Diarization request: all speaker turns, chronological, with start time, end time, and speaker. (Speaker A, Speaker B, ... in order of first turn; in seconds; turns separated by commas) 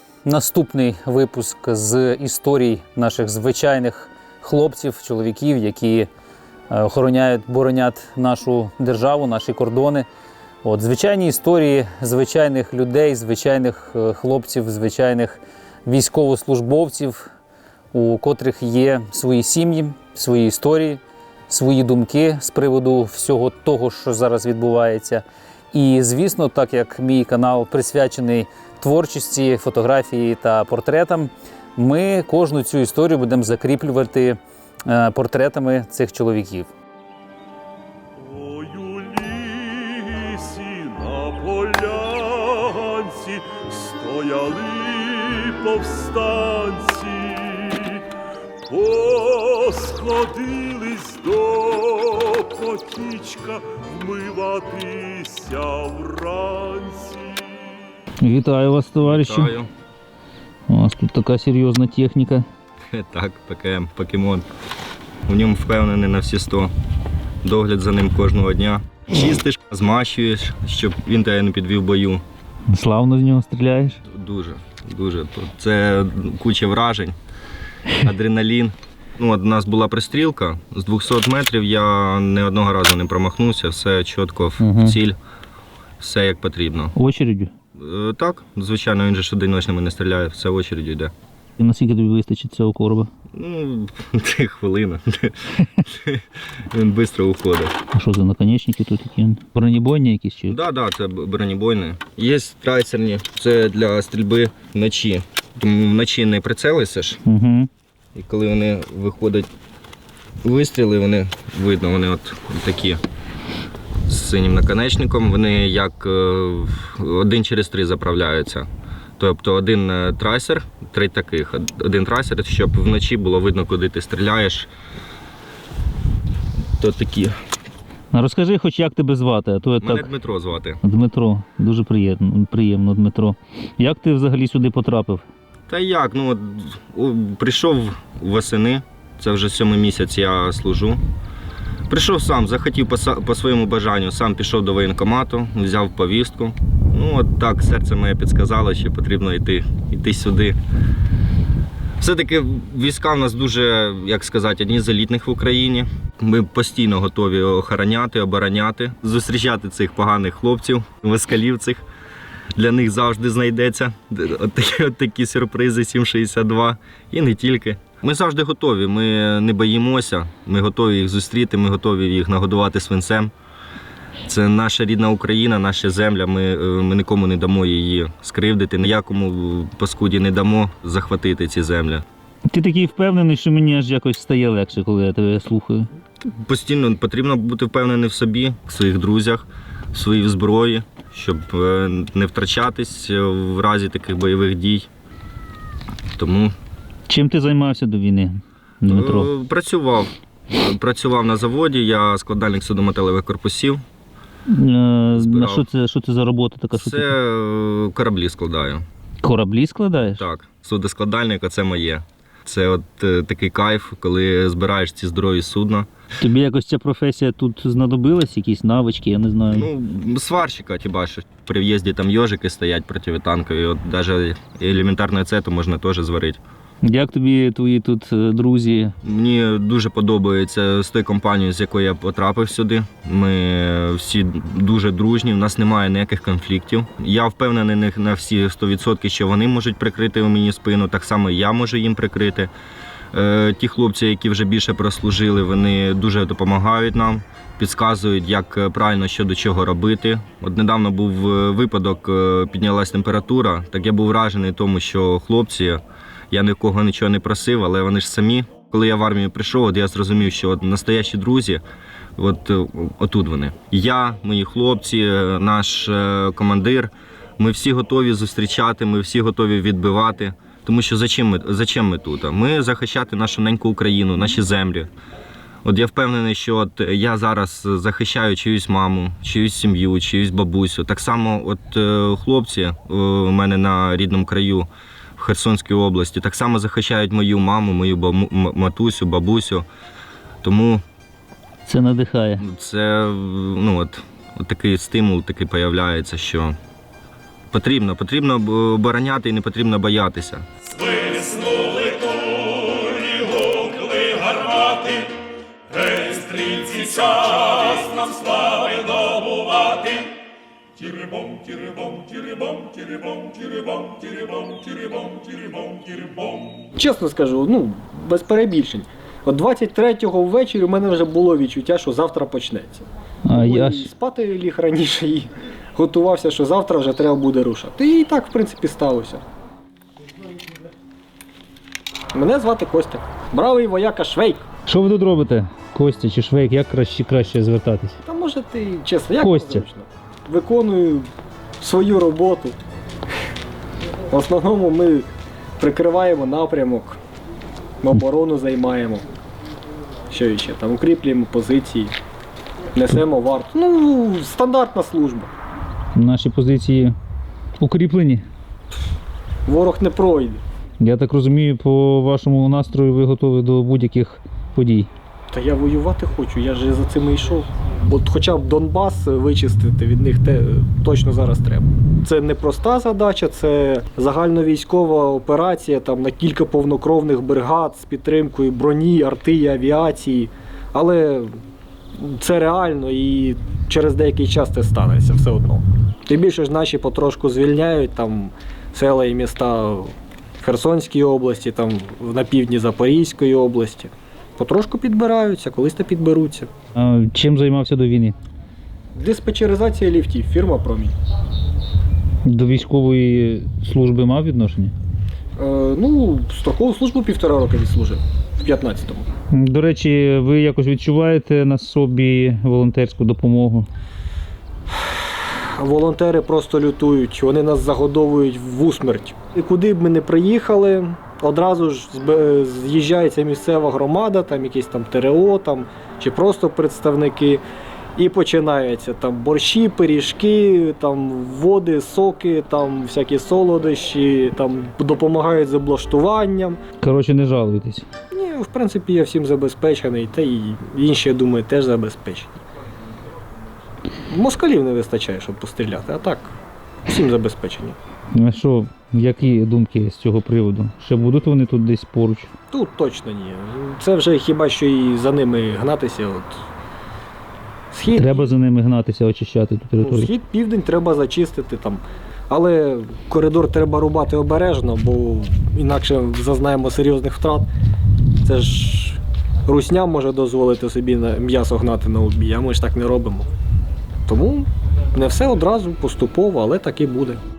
Speaker A: 0.3-6.1, Speaker A: 6.7-10.1, Speaker A: 10.6-17.2, Speaker A: 17.9-36.7, Speaker B: 38.2-48.0, Speaker B: 48.7-57.5, Speaker A: 58.2-59.5, Speaker C: 59.0-59.7, Speaker A: 60.7-62.5, Speaker C: 62.9-64.5, Speaker C: 65.3-66.7, Speaker C: 67.4-72.2, Speaker A: 72.7-74.0, Speaker C: 74.1-77.2, Speaker C: 78.0-85.2, Speaker A: 84.6-85.0, Speaker C: 86.0-86.9, Speaker A: 87.0-87.5, Speaker C: 87.8-91.1, Speaker A: 91.6-93.1, Speaker C: 93.3-95.3, Speaker C: 95.9-97.7, Speaker A: 97.9-100.6, Speaker C: 100.5-107.2, Speaker A: 107.2-107.7, Speaker C: 108.2-109.5, Speaker C: 110.4-113.0, Speaker C: 114.1-118.7, Speaker C: 119.2-124.7, Speaker C: 126.8-127.3, Speaker A: 128.1-130.1, Speaker C: 129.8-130.8, Speaker A: 130.8-135.2, Speaker C: 135.7-141.0, Speaker C: 141.9-150.6, Speaker C: 152.0-161.8, Speaker C: 162.6-173.3, Speaker C: 174.3-182.0, Speaker A: 182.5-185.9, Speaker C: 186.2-194.9, Speaker C: 196.2-196.6, Speaker A: 197.1-199.3, Speaker C: 198.9-203.8, Speaker A: 204.5-207.1, Speaker C: 205.2-205.7, Speaker C: 206.7-208.8, Speaker A: 209.2-210.2, Speaker C: 210.2-215.9, Speaker A: 216.2-219.7, Speaker C: 219.5-226.4, Speaker A: 226.8-229.0, Speaker C: 229.0-242.5, Speaker C: 243.1-261.6, Speaker C: 262.2-274.9, Speaker C: 275.6-289.7, Speaker C: 290.4-290.8, Speaker A: 291.7-292.4, Speaker C: 292.4-296.6, Speaker C: 297.5-300.4, Speaker D: 316.8-329.2, Speaker A: 323.3-323.9, Speaker D: 332.1-334.4, Speaker A: 334.7-338.0, Speaker D: 338.1-341.1, Speaker A: 339.2-339.7, Speaker D: 341.6-342.6, Speaker D: 344.1-345.1, Speaker D: 345.6-347.0, Speaker D: 347.8-349.1, Speaker D: 350.1-351.9, Speaker D: 352.8-355.3, Speaker A: 355.9-356.9, Speaker A: 357.6-358.2, Speaker D: 359.5-360.4, Speaker A: 360.8-364.9, Speaker D: 365.3-381.4, Speaker D: 382.0-396.5, Speaker A: 396.8-398.2, Speaker D: 398.9-400.9, Speaker A: 402.2-404.7, Speaker D: 405.4-409.1, Speaker A: 409.3-413.7, Speaker D: 415.6-427.4, Speaker D: 428.0-436.6, Speaker A: 436.8-437.9, Speaker D: 438.1-442.4, Speaker D: 444.1-446.3, Speaker D: 446.9-447.8, Speaker A: 448.1-452.3, Speaker D: 452.5-456.4, Speaker D: 457.7-458.3, Speaker A: 458.0-460.1, Speaker D: 459.8-467.5, Speaker D: 468.2-473.3, Speaker D: 474.1-477.2